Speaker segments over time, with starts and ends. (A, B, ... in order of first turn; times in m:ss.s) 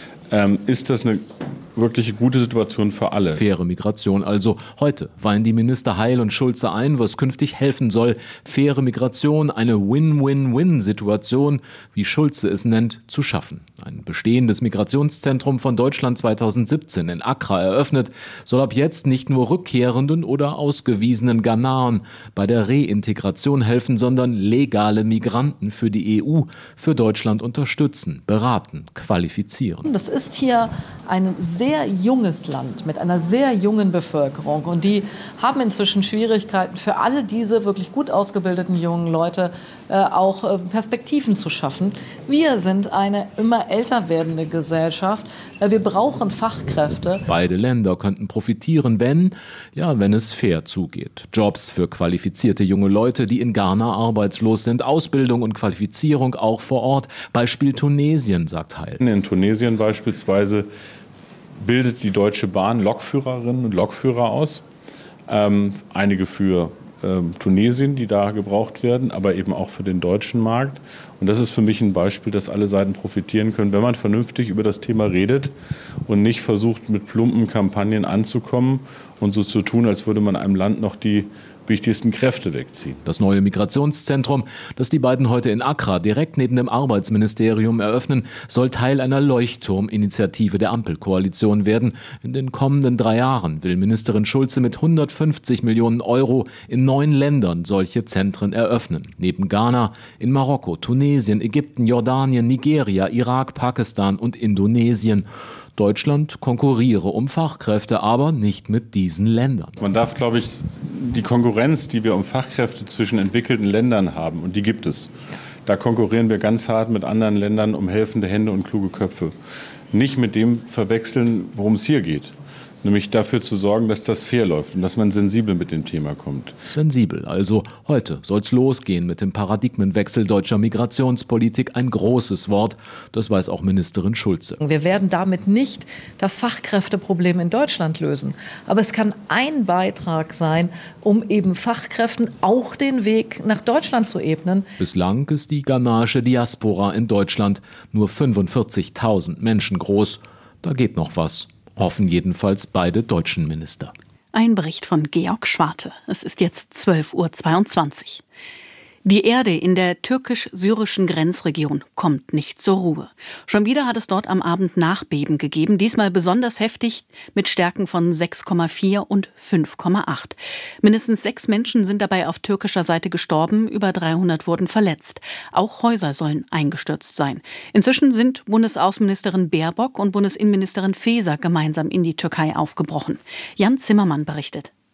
0:00.3-0:03.4 A
0:03.3-0:29.9 B
0:29.9-0:47.2 C
0:47.3-0:59.0 B
0:59.0-1:00.7 A
1:01.6-1:04.6 A
1:05.3-1:15.5 A
1:16.0-1:23.0 A
1:23.0-1:49.8 B
1:49.8-1:55.1 A
1:55.6-1:59.3 A
1:59.9-2:06.6 A
2:06.7-2:14.6 B
2:14.6-2:24.7 C
2:24.8-2:33.9 B
2:34.3-2:38.2 D
2:39.0-3:04.7 D